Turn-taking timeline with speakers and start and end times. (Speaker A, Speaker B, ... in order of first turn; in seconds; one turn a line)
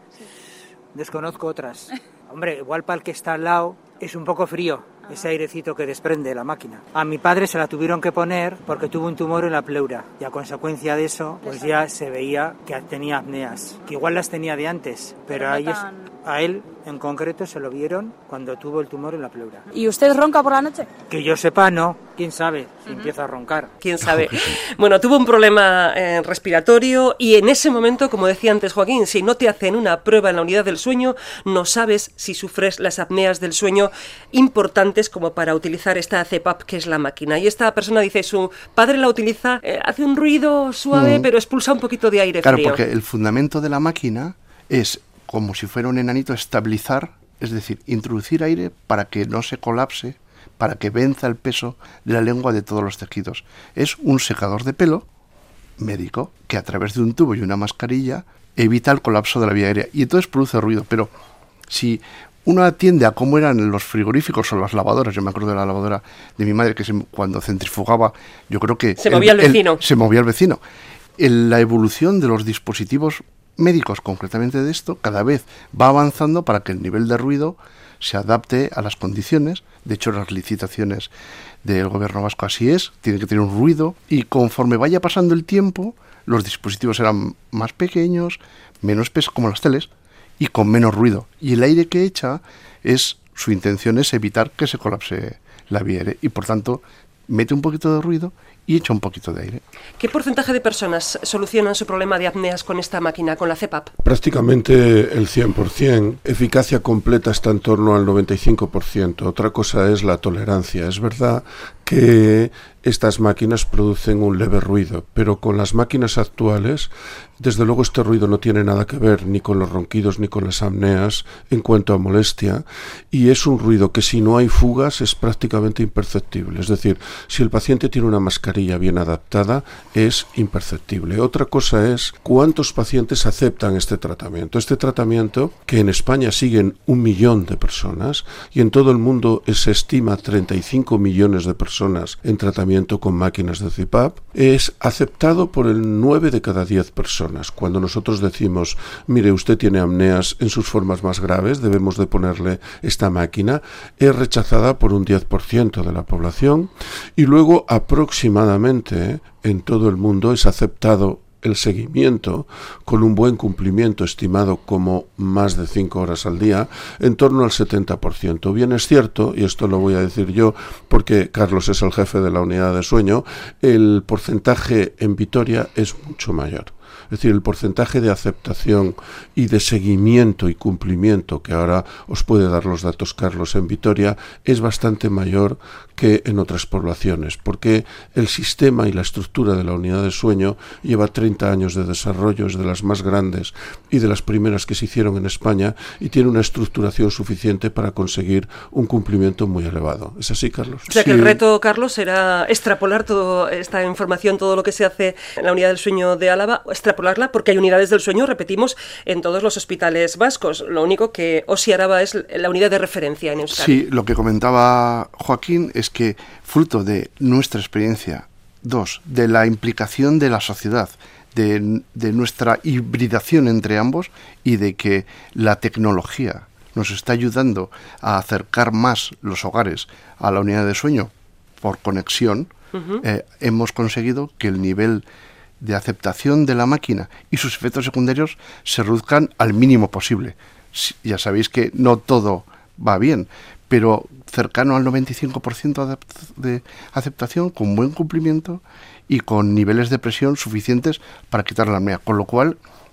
Speaker A: 0.9-19.7
Speaker B: 11.4-11.8
Speaker B: 15.3-16.1
Speaker B: 19.7-20.9
Speaker A: 21.1-23.7
Speaker C: 23.8-42.8
Speaker D: 40.9-41.3
Speaker D: 42.4-55.0
Speaker D: 55.8-61.1
Speaker D: 61.7-70.6
Speaker C: 69.0-69.8
Speaker D: 71.2-81.1
Speaker D: 81.6-99.6
Speaker C: 100.0-103.9
Speaker E: 104.0-200.9
Speaker C: 200.9-213.8
Speaker D: 200.9-201.4
Speaker D: 213.5-235.0
Speaker C: 232.7-233.0
Speaker D: 235.6-252.6